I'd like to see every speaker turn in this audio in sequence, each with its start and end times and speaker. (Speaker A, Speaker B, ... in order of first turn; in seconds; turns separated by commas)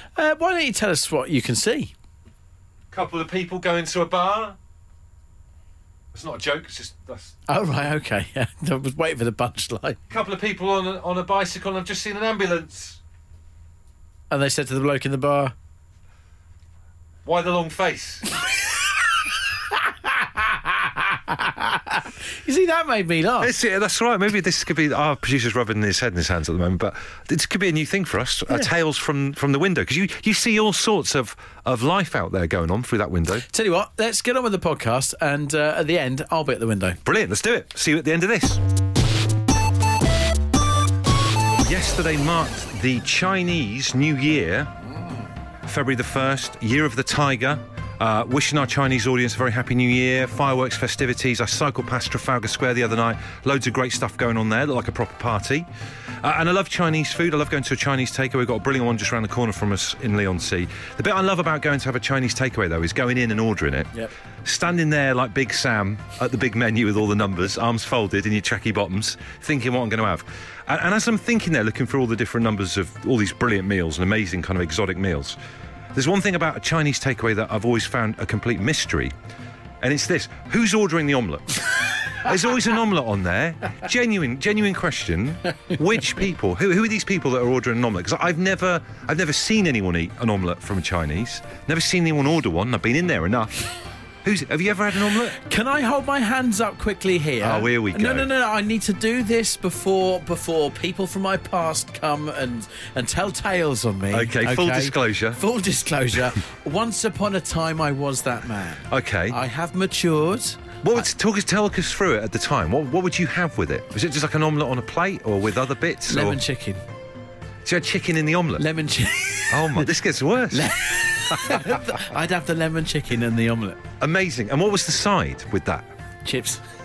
Speaker A: 0.1-1.9, Speaker B: 2.9-4.6, Speaker B: 6.1-7.4, Speaker A: 7.5-10.0, Speaker B: 10.1-13.0, Speaker A: 14.3-15.5, Speaker B: 17.2-18.2, Speaker A: 19.9-23.5, Speaker B: 23.4-33.5, Speaker A: 33.5-37.0, Speaker B: 37.0-38.6, Speaker B: 41.6-44.7, Speaker B: 45.6-55.7, Speaker B: 56.2-63.9, Speaker B: 64.4-75.4, Speaker B: 75.9-79.1, Speaker B: 79.8-81.6, Speaker B: 82.2-93.7, Speaker B: 94.2-95.4, Speaker A: 95.3-111.0, Speaker B: 97.4-98.3, Speaker B: 104.1-105.4, Speaker B: 108.9-109.4, Speaker B: 110.8-116.4, Speaker A: 116.1-116.8, Speaker B: 117.6-118.6, Speaker A: 118.6-119.9, Speaker B: 119.5-120.7, Speaker A: 120.5-123.8, Speaker B: 124.0-125.8, Speaker A: 126.2-126.6